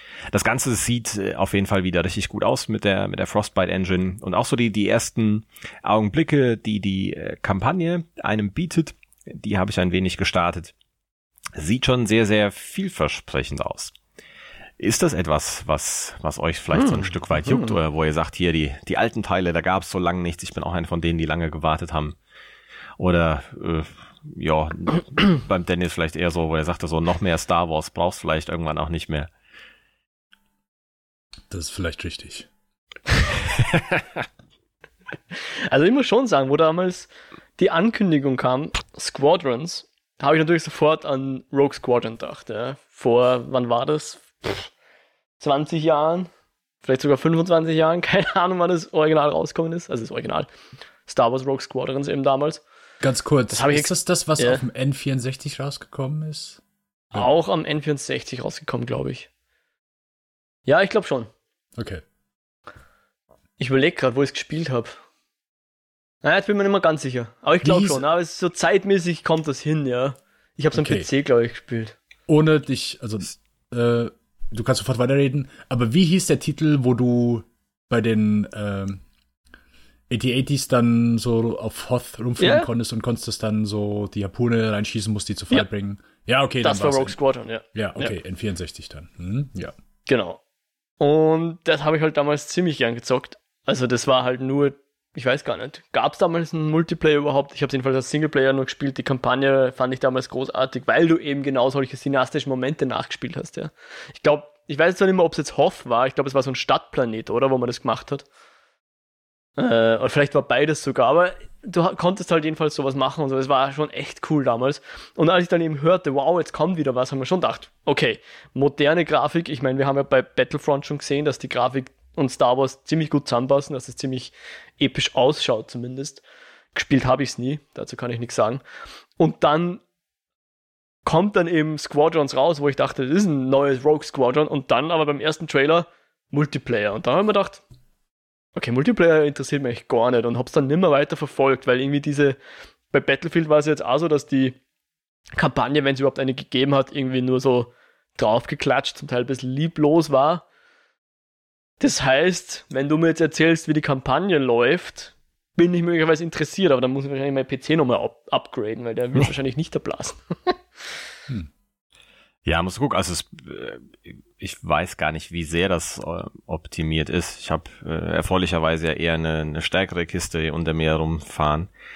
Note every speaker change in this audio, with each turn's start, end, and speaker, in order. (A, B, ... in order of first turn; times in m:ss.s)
0:00.3-0:10.7 A
0:11.5-0:13.9 A
0:14.8-0:22.2 A
0:23.0-0:29.3 A
0:31.5-0:32.5 B
0:33.7-0:34.0 A
0:35.7-0:44.7 C
0:45.4-0:46.3 C
0:46.8-0:50.5 C
0:51.0-0:52.6 C
0:53.0-0:56.6 B
0:53.5-0:54.6 C
0:57.1-0:59.3 C
1:00.7-1:01.3 C
1:01.8-1:02.0 B
1:03.6-1:05.0 C
1:06.2-1:12.0 C
1:07.6-1:08.0 B
1:10.7-1:11.1 B
1:12.3-1:19.0 B
1:20.1-1:27.2 B
1:22.4-1:22.7 C
1:26.6-1:28.1 C
1:27.7-1:29.7 B
1:30.1-1:30.4 C
1:31.0-1:48.2 C
1:49.6-2:06.2 C
2:06.7-2:08.6 C
2:09.2-2:09.8 C
2:11.0-2:17.6 C
2:18.6-2:22.4 C
2:22.9-2:24.6 C
2:25.4-2:30.4 C
2:31.8-2:40.6 C
2:42.4-2:51.7 A